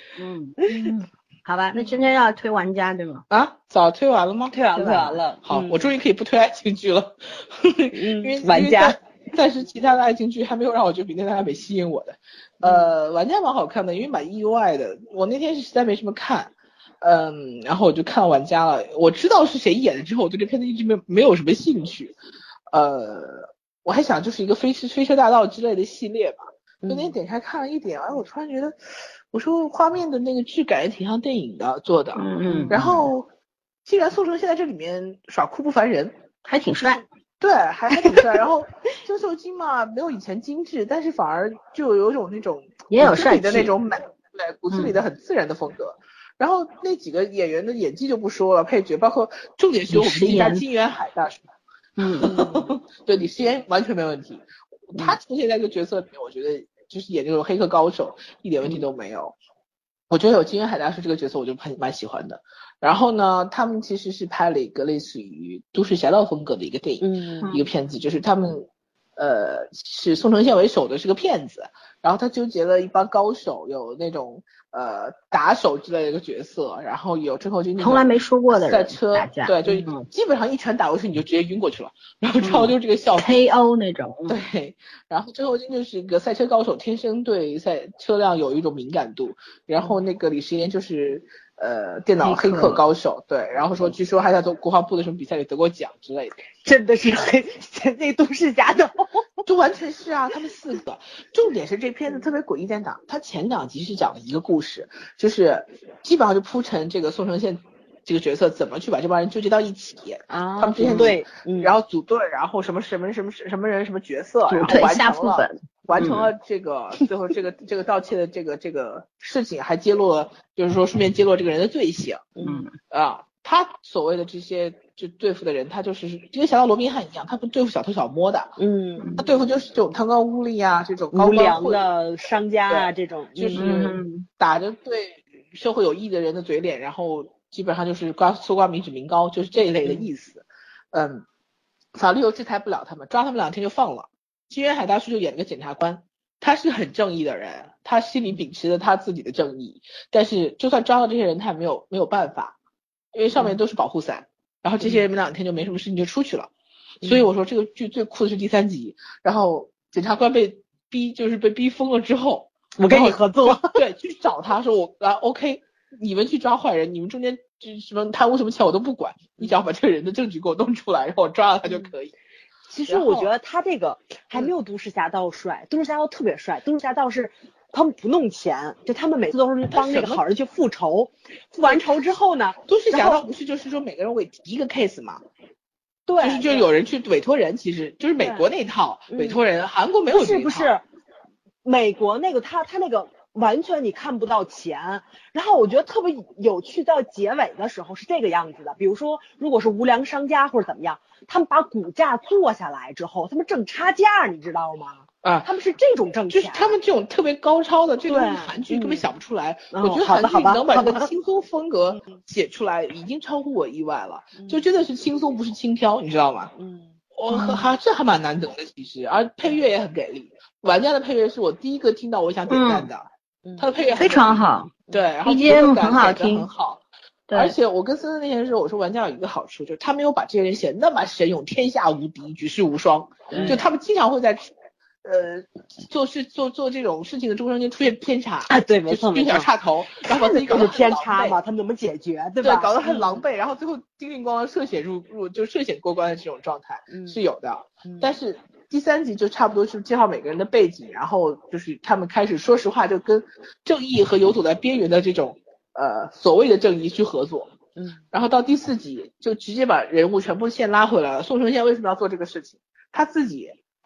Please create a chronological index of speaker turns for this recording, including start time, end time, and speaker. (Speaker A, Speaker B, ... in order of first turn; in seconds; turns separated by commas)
Speaker A: 0.2-3.2, Speaker B: 3.3-4.6, Speaker C: 4.5-5.9, Speaker A: 4.7-5.2, Speaker B: 5.5-22.1, Speaker C: 8.0-9.0, Speaker B: 22.7-28.8, Speaker C: 26.8-27.1, Speaker B: 29.3-33.3, Speaker A: 32.2-32.8, Speaker C: 32.5-33.0, Speaker B: 33.9-36.1, Speaker A: 36.5-37.0, Speaker B: 37.4-51.4, Speaker A: 42.9-43.7, Speaker A: 44.7-45.0, Speaker A: 49.9-50.6, Speaker A: 52.0-52.3, Speaker C: 52.2-52.7, Speaker B: 52.3-59.4, Speaker B: 60.1-83.5, Speaker C: 67.0-67.5, Speaker A: 77.8-80.1, Speaker A: 83.2-84.4, Speaker B: 84.3-96.4, Speaker A: 92.2-92.8, Speaker C: 96.7-99.3, Speaker B: 99.5-122.3, Speaker C: 110.3-111.7, Speaker A: 114.5-115.6, Speaker C: 122.4-122.7, Speaker A: 122.4-122.7, Speaker B: 122.9-128.6, Speaker C: 128.6-129.2, Speaker B: 129.2-131.8, Speaker C: 131.1-133.7, Speaker B: 132.7-141.2, Speaker A: 133.6-134.3, Speaker B: 141.9-152.6, Speaker B: 153.1-156.5, Speaker B: 157.0-172.1, Speaker C: 162.8-163.8, Speaker C: 172.7-183.2, Speaker B: 172.9-173.3, Speaker B: 179.7-180.2, Speaker B: 182.7-185.2, Speaker C: 186.1-186.7, Speaker B: 186.2-190.7, Speaker C: 188.2-188.5, Speaker C: 189.1-189.4, Speaker C: 190.1-190.8, Speaker C: 191.6-206.8, Speaker B: 205.2-205.5, Speaker B: 206.3-216.5, Speaker C: 208.1-209.1, Speaker C: 209.7-211.1, Speaker C: 216.6-216.9, Speaker B: 217.2-234.5, Speaker A: 217.3-217.6, Speaker A: 222.5-222.9, Speaker C: 223.4-223.7, Speaker A: 224.0-224.7, Speaker A: 225.2-226.5, Speaker A: 227.3-227.6, Speaker C: 233.3-233.6, Speaker B: 235.0-241.4, Speaker C: 238.5-239.5, Speaker C: 240.1-243.2, Speaker B: 242.4-257.5, Speaker C: 246.9-247.2, Speaker C: 247.8-248.1, Speaker C: 257.8-258.0, Speaker B: 258.1-263.6